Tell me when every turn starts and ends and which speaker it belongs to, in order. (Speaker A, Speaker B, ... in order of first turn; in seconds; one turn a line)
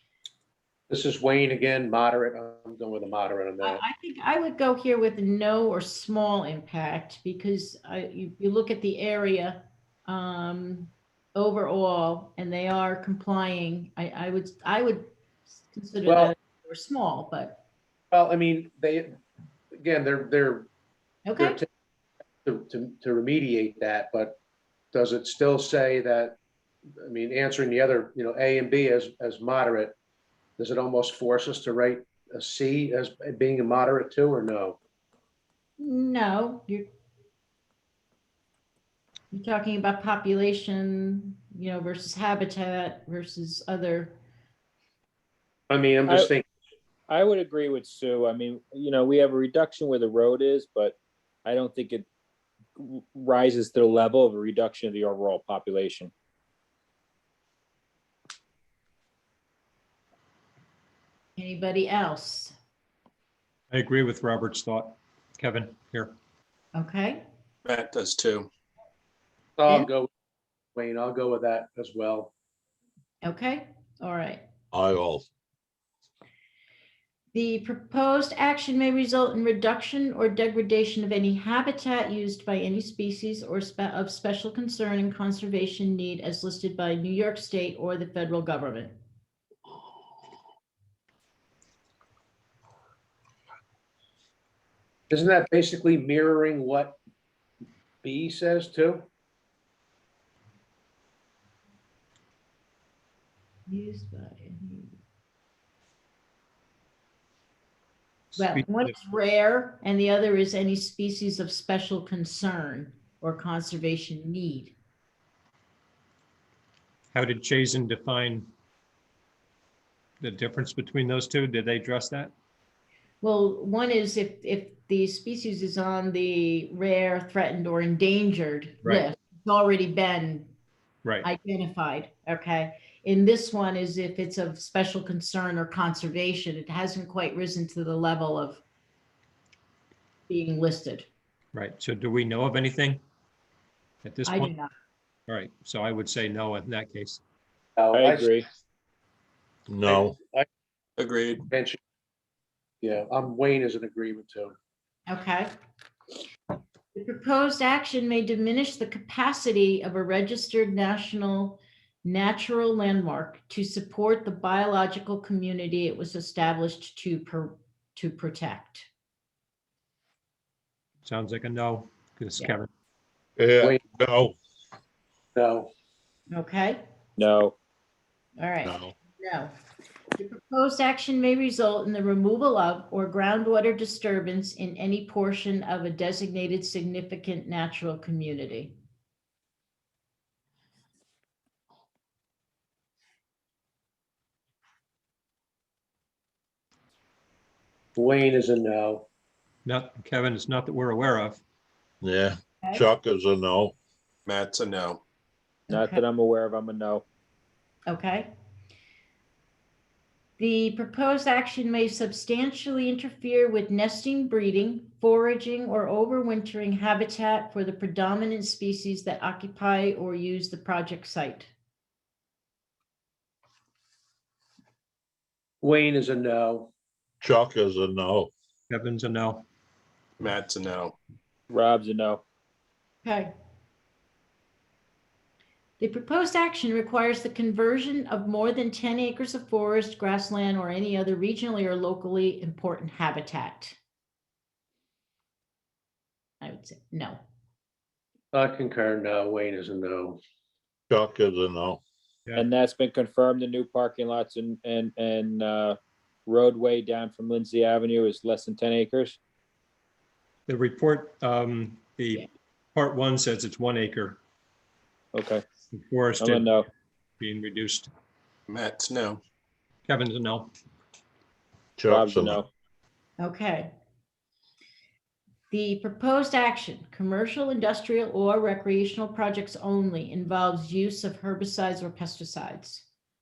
Speaker A: 0.9-3.8
Speaker B: 3.6-17.6
Speaker A: 16.1-16.3
Speaker A: 18.1-19.1
Speaker A: 19.7-20.7
Speaker B: 21.2-21.6
Speaker A: 21.4-21.6
Speaker A: 22.4-24.4
Speaker A: 24.9-26.4
Speaker A: 27.0-29.9
Speaker A: 30.6-34.8
Speaker B: 35.8-36.9
Speaker B: 39.3-44.2
Speaker A: 45.7-46.4
Speaker C: 47.1-52.0
Speaker C: 52.8-56.1
Speaker B: 61.4-62.5
Speaker D: 63.7-66.2
Speaker B: 66.7-67.2
Speaker E: 67.6-68.5
Speaker A: 69.6-70.1
Speaker A: 70.7-72.3
Speaker B: 73.2-74.4
Speaker F: 74.7-75.2
Speaker B: 77.3-88.9
Speaker A: 95.1-97.0
Speaker A: 98.0-99.1
Speaker B: 103.7-105.0
Speaker D: 108.3-108.9
Speaker B: 108.4-114.7
Speaker D: 117.1-118.5
Speaker D: 120.2-122.3
Speaker B: 123.2-130.5
Speaker D: 131.0-131.3
Speaker B: 131.2-138.6
Speaker B: 140.3-141.1
Speaker D: 141.5-143.0
Speaker D: 144.0-144.5
Speaker B: 144.2-144.7
Speaker D: 145.3-147.2
Speaker A: 147.8-148.4
Speaker C: 147.9-148.5
Speaker F: 149.7-150.2
Speaker A: 149.8-150.4
Speaker E: 151.0-151.4
Speaker A: 151.5-151.8
Speaker A: 152.8-154.5
Speaker B: 155.1-155.5
Speaker B: 156.9-168.9
Speaker D: 171.1-172.7
Speaker F: 173.4-174.3
Speaker A: 175.3-175.7
Speaker B: 176.3-176.8
Speaker C: 177.2-177.6
Speaker B: 178.4-179.5
Speaker F: 178.6-178.9
Speaker B: 180.2-188.7
Speaker A: 197.9-199.1
Speaker D: 199.6-201.4
Speaker F: 202.0-203.7
Speaker E: 204.2-205.0
Speaker B: 205.7-206.0
Speaker C: 205.7-207.0
Speaker B: 207.9-208.3
Speaker B: 210.4-221.5
Speaker A: 225.6-226.7
Speaker F: 227.2-228.3
Speaker D: 228.7-229.4
Speaker E: 230.2-230.9
Speaker C: 231.5-232.2
Speaker B: 233.0-233.3
Speaker B: 235.8-243.8
Speaker B: 246.4-247.2
Speaker A: 248.3-250.2
Speaker F: 250.9-251.8
Speaker C: 252.3-259.2
Speaker D: 260.5-264.2
Speaker C: 265.1-265.4
Speaker D: 265.7-266.5
Speaker C: 266.2-266.6
Speaker D: 267.2-267.9
Speaker E: 268.5-269.2
Speaker D: 269.9-270.5
Speaker F: 271.8-272.4
Speaker C: 271.9-272.5
Speaker B: 273.2-273.7
Speaker B: 275.5-282.8